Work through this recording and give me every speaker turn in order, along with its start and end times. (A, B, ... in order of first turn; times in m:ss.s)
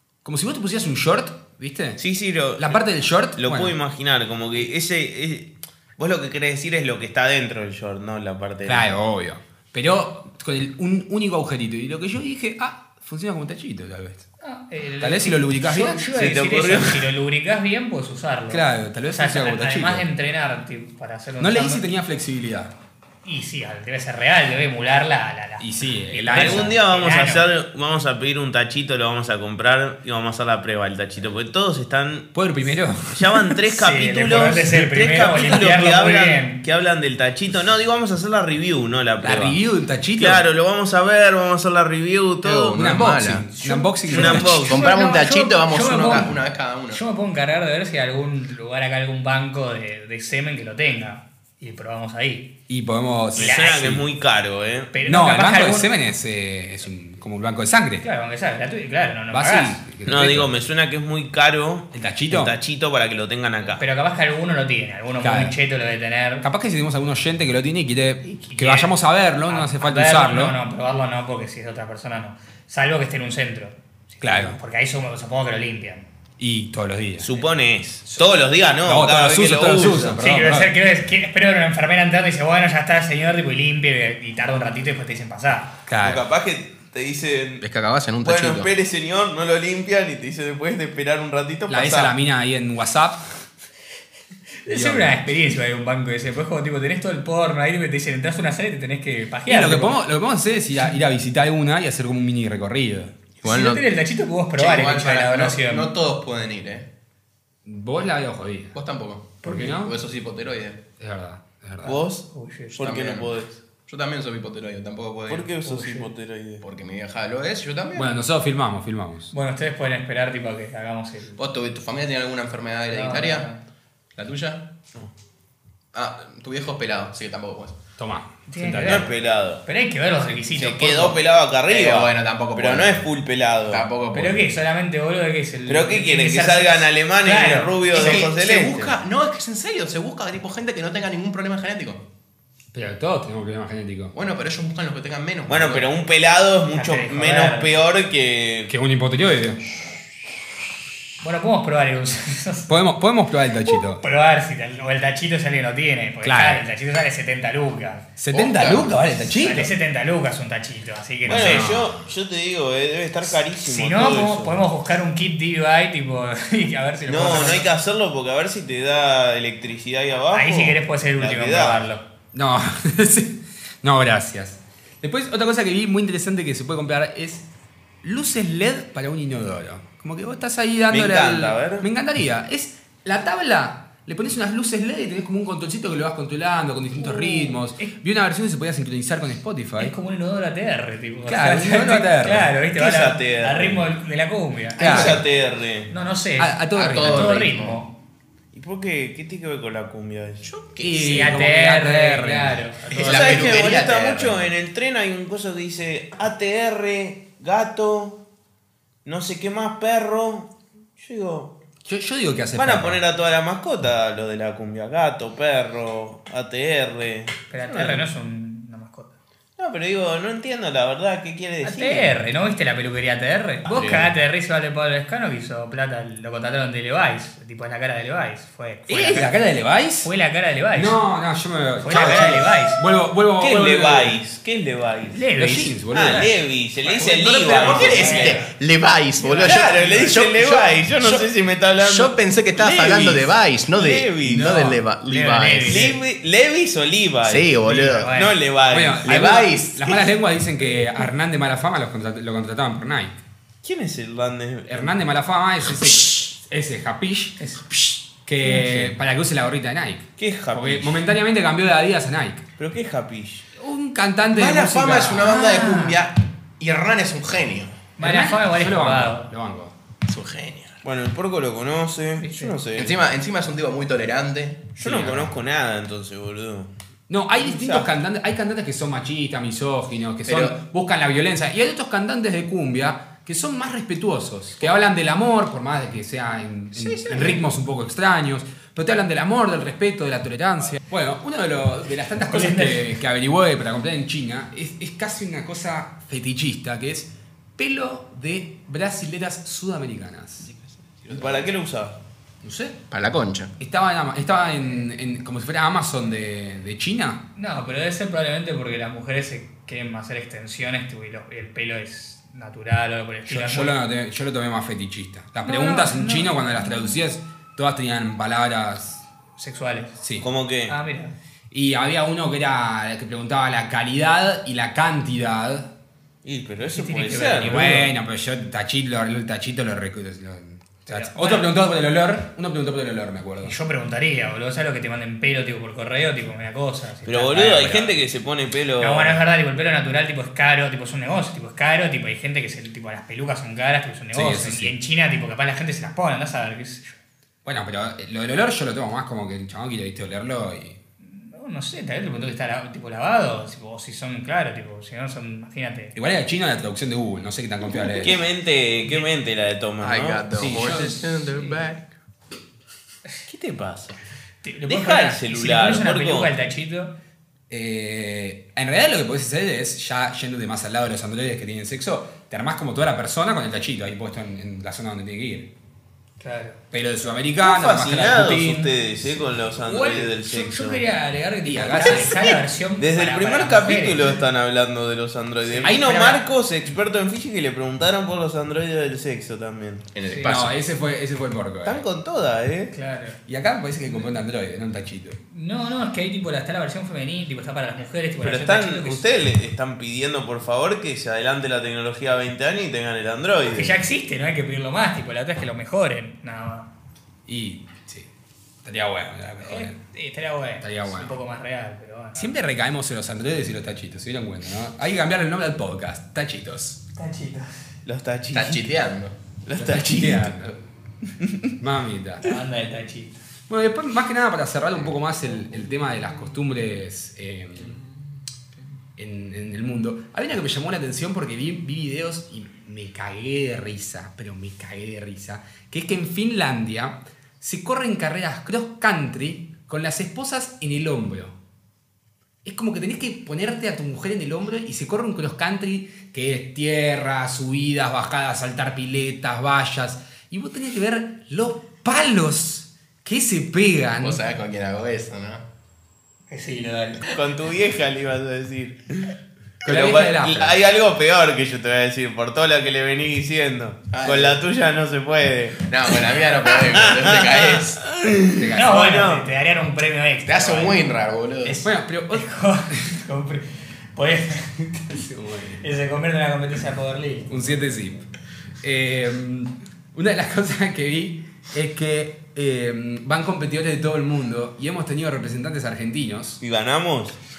0:00.2-0:02.0 A
0:02.0-0:02.8 B
0:02.6-0:03.7 A
0:03.4-0:09.0 B
0:08.6-0:14.2 A
0:14.4-0:21.8 C
0:15.0-0:16.1 A
0:16.1-0:17.1 B
0:18.5-0:20.1 A
0:21.4-0:22.7 A
0:23.2-0:27.5 C
0:25.6-0:26.8 A
0:26.3-0:32.3 B
0:32.3-0:33.5 A
0:33.1-0:39.6 B
0:33.7-0:36.6 C
0:39.2-0:40.4 A
0:40.2-0:43.0 B
0:42.4-0:43.5 D
0:42.7-0:44.6 A
0:43.6-0:46.4 C
0:44.0-0:44.8 B
0:44.6-0:47.0 D
0:46.9-0:52.5 C
0:52.7-0:53.6 A
0:53.4-0:54.0 C
0:53.4-0:54.9 B
0:54.9-0:55.9 C
0:55.0-0:58.0 A
0:58.0-0:59.8 C
0:59.3-1:00.5 A
1:00.0-1:03.8 B
1:01.9-1:02.5 A
1:03.7-1:06.4 C
1:05.2-1:05.6 A
1:06.4-1:10.6 A
1:08.3-1:16.0 C
1:14.2-1:14.6 A
1:16.4-1:17.3 A
1:17.2-1:20.2 B
1:18.8-1:20.7 A
1:20.2-1:25.7 C
1:25.9-1:26.2 A
1:26.0-1:27.6 B
1:27.6-1:28.7 D
1:28.2-1:32.1 B
1:31.7-1:33.3 A
1:34.6-1:40.0 C
1:34.7-1:35.2 A
1:39.5-1:43.1 A
1:43.4-1:43.8 D
1:43.4-1:45.9 C
1:44.6-1:46.9 D
1:47.6-1:48.7 A
1:48.7-1:50.8 D
1:49.4-1:49.8 C
1:49.4-1:49.9 A
1:51.0-1:52.0 A
1:51.8-1:53.5 B
1:51.9-1:52.8 C
1:52.8-1:53.3 D
1:53.9-1:55.5 D
1:55.3-1:56.6 B
1:55.6-1:56.1 C
1:56.6-1:58.1 D
1:58.0-1:59.3 A
1:59.3-2:01.4 C
2:01.4-2:03.5 D
2:02.9-2:03.6 C
2:04.2-2:04.6 D
2:05.9-2:07.8 D
2:08.0-2:09.1 A
2:08.5-2:09.1 C
2:08.8-2:09.6 B
2:09.6-2:11.2 C
2:10.5-2:13.9 B
2:11.7-2:13.0 D
2:13.7-2:14.5 D
2:14.1-2:18.2 C
2:15.7-2:18.9 B
2:17.9-2:22.0 D
2:22.7-2:24.1 A
2:24.1-2:25.9 D
2:25.5-2:28.7 B
2:26.7-2:27.7 C
2:28.7-2:29.6 A
2:31.2-2:32.7 C
2:32.7-2:34.0 A
2:33.7-2:38.1 C
2:36.2-2:36.6 A
2:38.2-2:39.7 A
2:38.3-2:38.9 D
2:39.2-2:41.8 C
2:41.2-2:44.6 B
2:41.3-2:41.9 A
2:43.6-2:47.7 C
2:47.0-2:51.8 B
2:50.3-2:52.0 C
2:52.3-2:57.4 A
2:58.0-3:09.9 A
3:00.9-3:01.9 B
3:07.0-3:07.9 C
3:09.8-3:15.2 C
3:11.3-3:12.5 A
3:12.8-3:13.9 B
3:14.8-3:15.2 A
3:14.8-3:15.9 B
3:15.9-3:17.9 C
3:16.4-3:17.4 A
3:16.7-3:17.8 D
3:18.5-3:20.4 B
3:20.4-3:21.2 D
3:20.8-3:22.7 A
3:21.0-3:23.8 C
3:22.9-3:24.5 D
3:22.9-3:28.2 B
3:29.0-3:31.5 B
3:31.8-3:33.0 A
3:32.5-3:38.1 B
3:37.5-3:39.2 C
3:39.6-3:42.2 B
3:41.6-3:49.4 C
3:43.7-3:44.0 B
3:48.9-3:50.1 A
3:50.0-3:51.0 C
3:50.7-3:54.2 A
3:51.8-3:52.8 C
3:51.9-3:52.4 B
3:53.4-3:55.2 B
3:55.1-3:56.3 C
3:55.4-3:56.3 A
3:55.9-3:58.4 B
3:56.9-3:58.5 C
3:57.0-4:01.3 D
3:57.5-3:58.2 A
3:59.2-4:00.1 C
3:59.4-4:04.7 B
4:01.8-4:06.0 D
4:05.0-4:06.0 C
4:05.6-4:09.2 B
4:07.2-4:08.1 D
4:07.6-4:08.4 C
4:08.7-4:13.2 A
4:09.0-4:10.1 D
4:13.6-4:14.9 B
4:14.7-4:17.4 A
4:17.4-4:17.6 C
4:18.2-4:22.4 A
4:18.5-4:18.9 C
4:20.2-4:21.0 B
4:22.6-4:23.4 B
4:23.6-4:25.6 A
4:24.3-4:27.8 D
4:25.2-4:26.0 C
4:28.0-4:29.3 C
4:28.0-4:29.7 A
4:30.0-4:30.8 D
4:30.8-4:33.0 B
4:32.2-4:32.6 C
4:32.7-4:34.7 D
4:34.8-4:36.7 B
4:34.8-4:35.3 A
4:37.1-5:00.5 A
4:37.4-4:37.9 B
4:40.2-4:40.6 D
4:46.7-4:47.4 D
4:52.3-4:52.9 C
5:00.5-5:01.5 D
5:01.1-5:02.0 B
5:02.4-5:02.8 A
5:02.9-5:03.5 D
5:03.6-5:07.2 A
5:07.4-5:13.8 C
5:13.3-5:19.0 A
5:15.4-5:17.0 C
5:19.4-5:20.0 C
5:20.0-5:20.3 A
5:20.2-5:20.7 B
5:20.7-5:21.1 C
5:21.5-5:25.7 A
5:26.2-5:27.8 B
5:26.7-5:27.9 C
5:27.4-5:33.5 A
5:30.9-5:31.5 C
5:33.4-5:37.9 C
5:37.0-5:39.2 B
5:38.8-5:47.0 C
5:44.1-5:44.7 A
5:47.4-5:50.8 A
5:51.0-5:55.9 C
5:55.9-5:58.2 A
5:57.9-6:00.8 B
5:59.8-6:01.8 D
6:00.4-6:01.1 A
6:01.3-6:01.6 C
6:03.3-6:04.0 B
6:04.4-6:06.9 C
6:04.7-6:06.3 B
6:07.5-6:15.5 A
6:16.2-6:16.6 C
6:16.7-6:18.7 A
6:17.4-6:20.8 B
6:19.5-6:24.2 C
6:21.4-6:22.3 A
6:21.9-6:29.8 B
6:25.5-6:25.9 C
6:25.6-6:26.2 A
6:29.9-6:30.6 D
6:30.0-6:30.4 C
6:30.2-6:31.8 A
6:31.6-6:32.7 B
6:32.7-6:33.2 C
6:33.3-6:35.2 A
6:35.3-6:39.1 C
6:38.2-6:43.8 B
6:43.4-6:46.7 C
6:47.3-6:48.1 A
6:48.6-6:49.8 A
6:49.4-6:52.3 C
6:50.6-6:51.1 A
6:52.2-6:56.8 A
6:57.0-6:57.6 C
6:57.8-6:58.7 B
6:58.3-6:59.2 D
6:59.4-7:00.5 B
6:59.5-7:00.6 A
7:01.2-7:01.5 B
7:01.6-7:02.3 A
7:02.2-7:03.2 C
7:03.5-7:07.8 A
7:09.0-7:21.3 A
7:22.4-7:34.2 A
7:34.0-7:35.4 D
7:36.3-7:37.2 C
7:37.1-7:49.3 B
7:39.6-7:40.6 A
7:43.9-7:44.4 D
7:45.6-7:47.8 D
7:48.3-7:48.7 A
7:48.5-7:50.9 C
7:50.2-7:51.6 D
7:51.5-7:55.1 C
7:51.5-7:52.8 A
7:54.9-7:55.6 A
7:55.6-7:57.4 C
7:57.3-7:58.0 A
7:58.6-8:06.4 A
8:06.4-8:07.2 B